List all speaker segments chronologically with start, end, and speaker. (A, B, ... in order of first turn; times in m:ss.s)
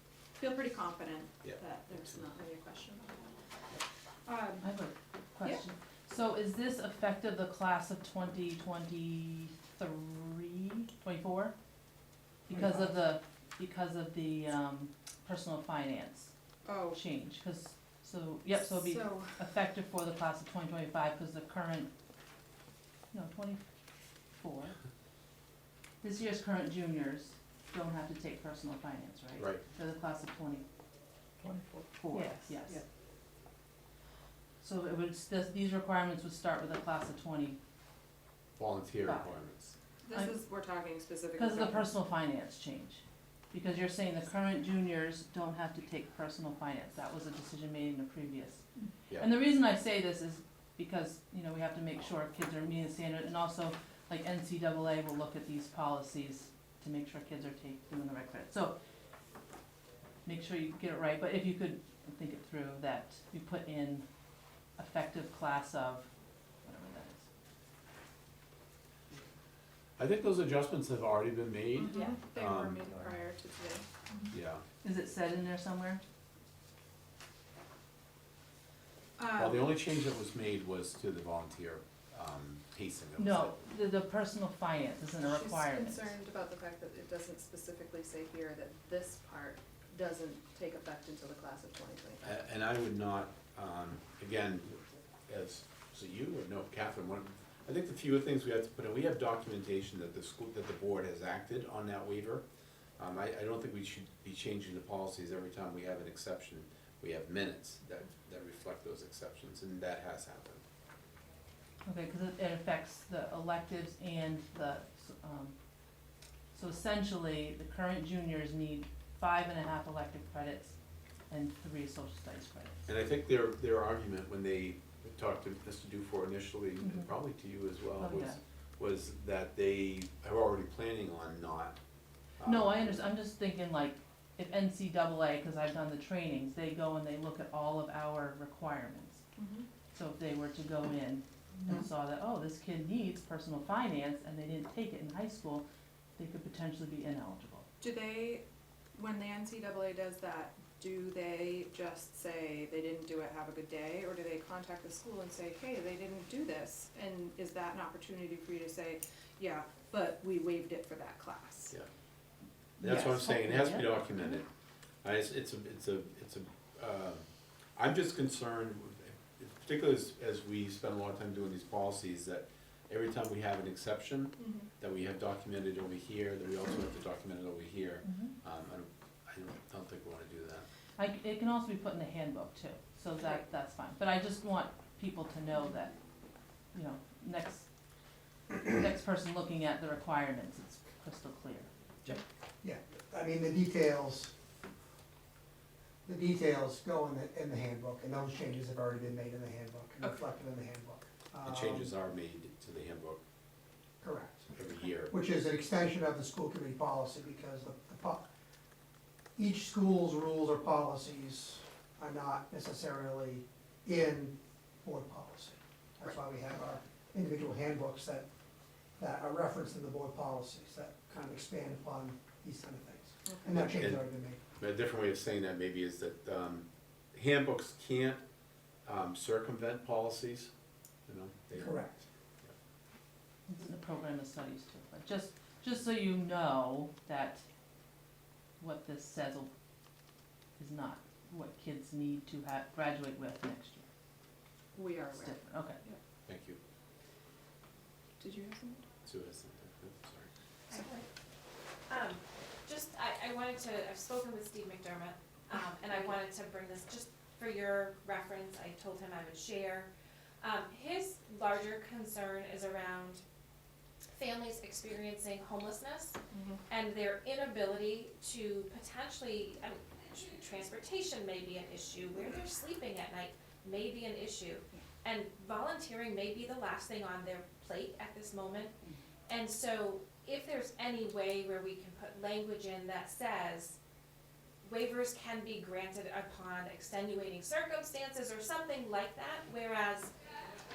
0:00.4-0:03.3 A
0:01.4-0:02.0 B
0:04.2-0:04.7 A
0:04.6-0:11.5 C
0:12.5-0:16.3 C
0:16.6-0:17.0 A
0:16.9-0:21.9 C
0:18.5-0:19.5 A
0:23.1-0:23.6 C
0:24.4-0:24.8 C
0:26.0-0:30.6 C
0:29.4-0:29.6 B
0:31.5-0:31.8 D
0:32.0-0:32.8 C
0:32.1-0:32.8 A
0:34.6-0:37.6 C
0:38.6-0:39.7 B
0:39.0-0:39.4 C
0:40.0-0:41.9 A
0:40.1-0:40.4 C
0:41.4-0:58.7 C
1:00.2-1:04.0 C
1:04.8-1:06.1 C
1:06.6-1:07.3 C
1:10.0-1:12.8 B
1:11.8-1:14.3 A
1:14.3-1:14.6 B
1:14.8-1:16.0 C
1:19.2-1:19.7 A
1:19.3-1:23.6 B
1:23.2-1:26.1 C
1:25.2-1:32.3 A
1:32.2-1:42.4 B
1:43.0-1:50.6 B
1:51.8-1:55.5 C
1:56.5-2:00.8 C
2:01.3-2:02.8 C
2:02.8-2:11.8 B
2:06.8-2:07.1 C
2:08.0-2:08.4 C
2:12.4-2:13.0 B
2:12.4-2:19.2 C
2:19.4-2:19.6 A
2:19.9-2:25.6 C
2:26.2-2:27.7 C
2:27.8-2:28.4 A
2:28.9-2:41.7 A
2:42.8-2:44.4 C
2:42.8-2:44.4 B
2:45.0-2:47.2 B
2:47.8-3:00.7 B
2:54.4-2:54.7 A
2:58.0-2:58.4 C
3:01.0-3:05.9 C
3:06.7-3:07.7 C
3:08.5-3:11.7 C
3:12.0-3:14.3 D
3:16.0-3:21.9 D
3:21.4-3:23.2 B
3:24.0-3:24.5 D
3:24.5-3:25.1 B
3:25.1-3:28.2 D
3:29.4-3:38.2 D
3:39.0-3:44.4 D
3:43.5-3:44.0 B
3:44.6-3:48.2 B
3:48.8-3:50.5 B
3:51.1-3:51.8 B
3:51.6-3:52.0 D
3:53.5-3:57.4 C
3:58.6-3:59.5 C
4:00.6-4:03.8 C
4:04.7-4:06.0 A
4:05.1-4:05.8 C
4:06.2-4:06.6 B
4:08.2-4:08.8 A
4:09.0-4:10.3 B
4:10.7-4:11.1 E
4:11.9-4:19.9 E
4:20.4-4:23.2 E
4:24.1-4:26.2 E
4:26.3-4:26.6 A
4:26.7-4:38.7 E
4:39.3-4:43.8 E
4:44.6-4:50.1 E